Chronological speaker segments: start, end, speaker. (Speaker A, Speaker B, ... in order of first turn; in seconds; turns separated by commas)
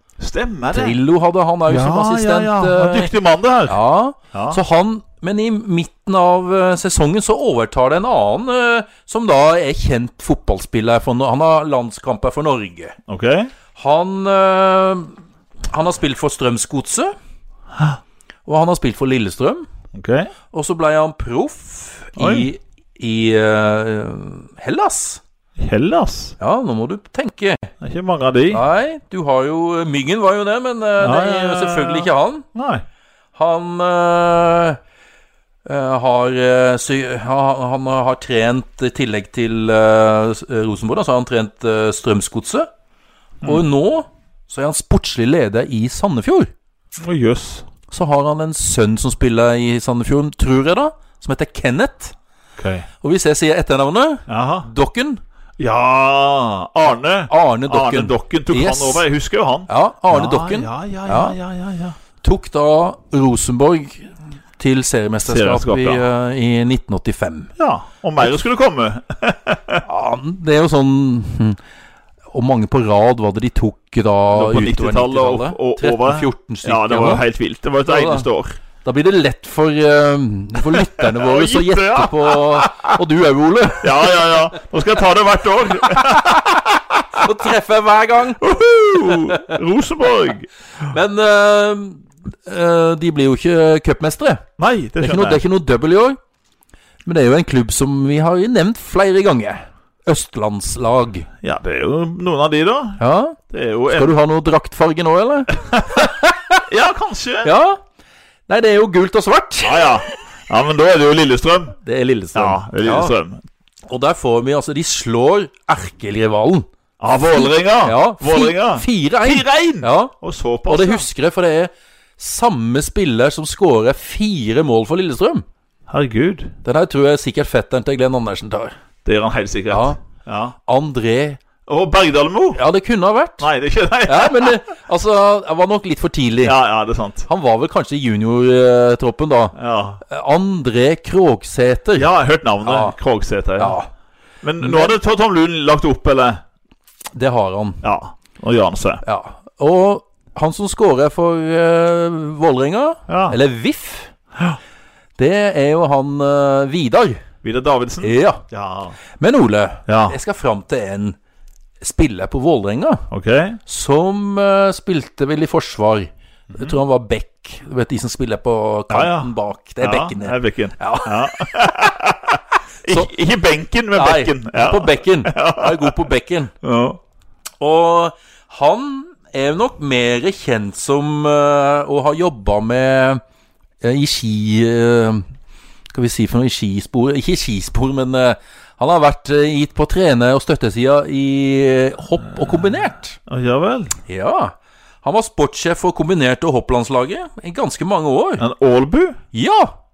Speaker A: 0.2-1.0, Speaker B: 0.7-3.1, Speaker A: 1.7-3.8, Speaker B: 3.7-13.0, Speaker A: 4.3-4.6, Speaker A: 13.1-13.5, Speaker B: 13.7-15.1, Speaker B: 15.7-17.1, Speaker B: 18.4-19.7, Speaker A: 19.9-20.3, Speaker B: 20.5-25.2, Speaker A: 22.2-22.5, Speaker A: 25.6-26.4, Speaker B: 26.4-27.7, Speaker A: 27.8-28.6, Speaker B: 28.5-32.5, Speaker A: 31.0-32.8, Speaker B: 33.3-34.8, Speaker B: 35.6-42.7, Speaker B: 43.4-46.5, Speaker A: 47.0-47.6, Speaker B: 47.9-52.1, Speaker A: 52.6-52.9, Speaker B: 53.0-55.2, Speaker A: 54.3-54.7, Speaker A: 55.6-62.0, Speaker B: 57.3-59.0, Speaker B: 59.7-61.4, Speaker B: 62.2-67.5, Speaker A: 65.2-66.0, Speaker A: 67.6-69.8, Speaker B: 69.8-71.6, Speaker B: 72.3-77.2, Speaker A: 74.3-78.6, Speaker B: 77.8-78.3, Speaker B: 78.8-84.4, Speaker A: 80.7-82.9, Speaker A: 83.8-86.8, Speaker B: 86.1-86.6, Speaker B: 87.1-88.4, Speaker A: 88.4-90.5, Speaker B: 89.0-89.6, Speaker B: 90.8-94.4, Speaker A: 94.6-95.4, Speaker B: 95.0-96.2, Speaker B: 97.0-101.3, Speaker A: 101.4-104.2, Speaker B: 103.0-106.6, Speaker A: 105.6-106.0, Speaker A: 106.7-107.5, Speaker B: 107.4-107.8, Speaker B: 108.5-109.9, Speaker A: 109.6-111.8, Speaker B: 111.8-113.1, Speaker A: 112.3-113.4, Speaker B: 113.9-116.7, Speaker A: 117.0-121.0, Speaker B: 117.3-120.1, Speaker B: 120.7-125.4, Speaker A: 125.9-126.5, Speaker B: 126.6-128.7, Speaker A: 129.0-130.6, Speaker B: 129.7-130.0, Speaker B: 130.7-131.4, Speaker A: 131.7-132.6, Speaker B: 132.5-133.5, Speaker A: 133.4-134.6, Speaker B: 134.1-136.6, Speaker A: 136.4-137.2, Speaker B: 137.2-142.1, Speaker A: 139.6-140.0, Speaker A: 142.0-143.8, Speaker B: 142.6-142.9, Speaker B: 143.6-143.9, Speaker A: 144.4-146.4, Speaker B: 144.6-144.9, Speaker B: 147.1-147.8, Speaker A: 147.8-149.0, Speaker B: 149.0-154.1, Speaker A: 153.1-153.3, Speaker B: 155.2-157.2, Speaker A: 157.4-158.9, Speaker B: 158.0-158.4, Speaker B: 159.2-161.2, Speaker A: 159.9-160.2, Speaker B: 161.8-163.1, Speaker A: 163.1-163.6, Speaker B: 163.7-171.8, Speaker A: 168.9-176.0, Speaker B: 173.9-176.5, Speaker A: 176.6-177.0, Speaker B: 177.6-183.2, Speaker B: 183.8-185.2, Speaker B: 185.9-193.2, Speaker A: 193.3-193.9, Speaker B: 194.1-198.4, Speaker A: 198.4-199.2, Speaker B: 199.3-199.7